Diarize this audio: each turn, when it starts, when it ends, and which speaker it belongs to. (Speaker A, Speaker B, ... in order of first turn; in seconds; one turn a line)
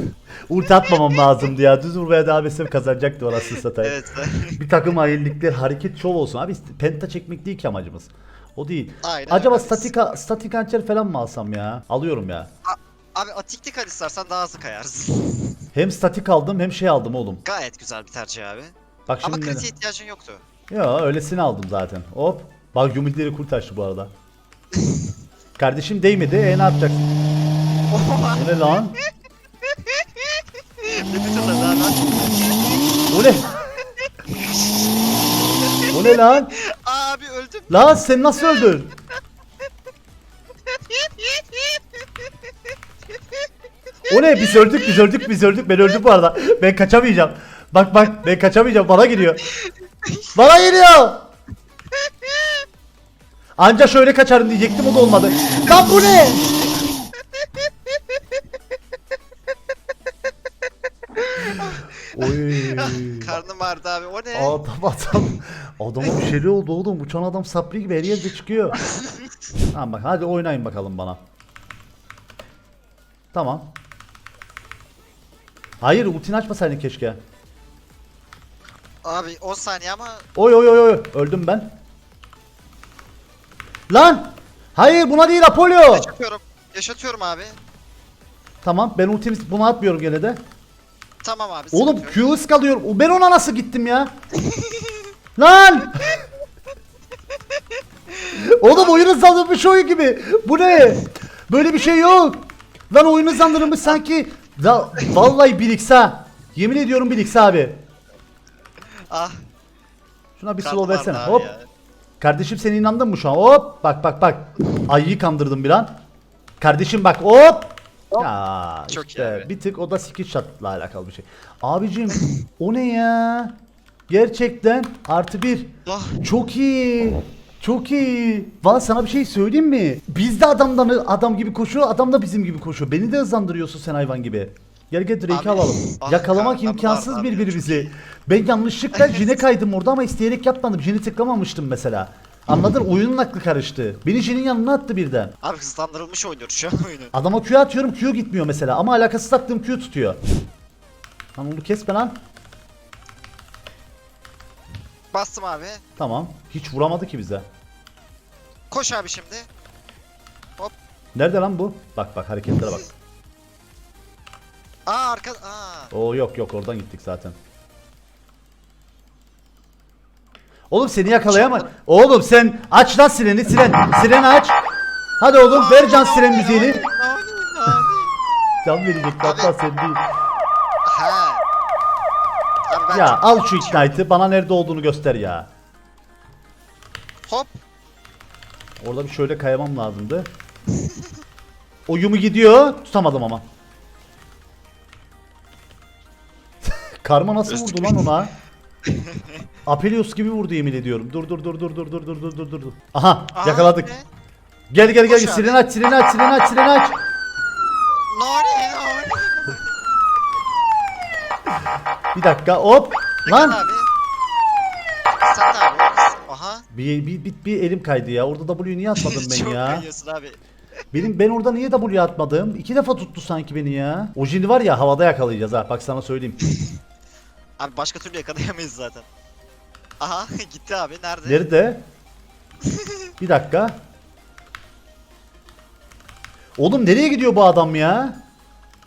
Speaker A: 0.5-3.9
Speaker B: 3.8-4.6
Speaker A: 4.5-12.5
Speaker B: 9.0-9.9
Speaker B: 12.6-15.6
Speaker A: 15.7-17.4
Speaker B: 17.4-20.4
Speaker A: 19.1-19.7
Speaker A: 20.7-24.1
Speaker B: 24.7-25.1
Speaker A: 25.6-27.1
Speaker B: 27.9-28.8
Speaker A: 28.3-29.0
Speaker B: 30.8-32.6
Speaker A: 33.1-33.5
Speaker B: 34.3-34.8
Speaker B: 35.6-37.8
Speaker A: 35.9-36.5
Speaker A: 37.7-38.9
Speaker B: 40.9-41.4
Speaker A: 44.1-49.5
Speaker B: 50.0-50.3
Speaker A: 50.3-51.2
Speaker A: 53.6-56.5
Speaker B: 61.4-64.6
Speaker A: 62.1-63.4
Speaker A: 64.3-68.8
Speaker B: 68.8-69.3
Speaker A: 69.7-71.2
Speaker A: 73.3-73.7
Speaker A: 75.8-77.2
Speaker B: 79.0-80.2
Speaker A: 80.3-81.7
Speaker A: 83.9-86.1
Speaker B: 85.9-87.6
Speaker A: 88.6-90.4
Speaker B: 91.2-92.2
Speaker A: 91.7-94.1
Speaker B: 94.4-95.0
Speaker A: 95.4-96.2
Speaker A: 98.3-107.8
Speaker B: 98.7-99.1
Speaker B: 103.7-104.0
Speaker B: 109.1-109.4
Speaker A: 110.4-111.5
Speaker B: 110.6-111.7
Speaker A: 112.2-116.0
Speaker A: 116.6-123.5
Speaker B: 118.9-119.5
Speaker A: 124.1-145.3
Speaker B: 125.8-126.2
Speaker B: 135.3-137.9
Speaker B: 138.9-139.4
Speaker B: 145.4-147.1
Speaker A: 147.1-150.2
Speaker A: 151.3-152.2
Speaker B: 155.1-155.8
Speaker A: 156.0-157.4
Speaker B: 158.7-159.5
Speaker A: 161.1-162.9
Speaker B: 164.8-165.9
Speaker A: 165.9-167.3
Speaker A: 170.7-174.6
Speaker B: 171.2-171.7
Speaker A: 175.2-176.8
Speaker B: 175.5-178.1
Speaker A: 178.6-180.1
Speaker B: 179.2-179.5
Speaker B: 180.8-181.4
Speaker B: 182.7-184.0
Speaker A: 182.9-185.5
Speaker B: 187.3-187.5
Speaker A: 188.8-190.3
Speaker B: 190.8-191.0
Speaker A: 191.9-193.4
Speaker A: 196.6-198.3
Speaker B: 197.5-198.0
Speaker B: 198.8-199.4
Speaker A: 199.7-203.9
Speaker B: 203.3-204.1
Speaker A: 204.7-206.9
Speaker B: 205.0-205.6
Speaker B: 208.0-209.6
Speaker A: 212.1-213.6
Speaker B: 213.2-213.9
Speaker B: 215.2-216.6
Speaker A: 216.7-219.8
Speaker B: 218.9-220.4
Speaker A: 220.9-226.4
Speaker B: 227.6-229.1
Speaker B: 230.0-231.4
Speaker A: 231.2-231.8
Speaker B: 232.6-233.0
Speaker A: 233.2-233.8
Speaker A: 236.6-238.2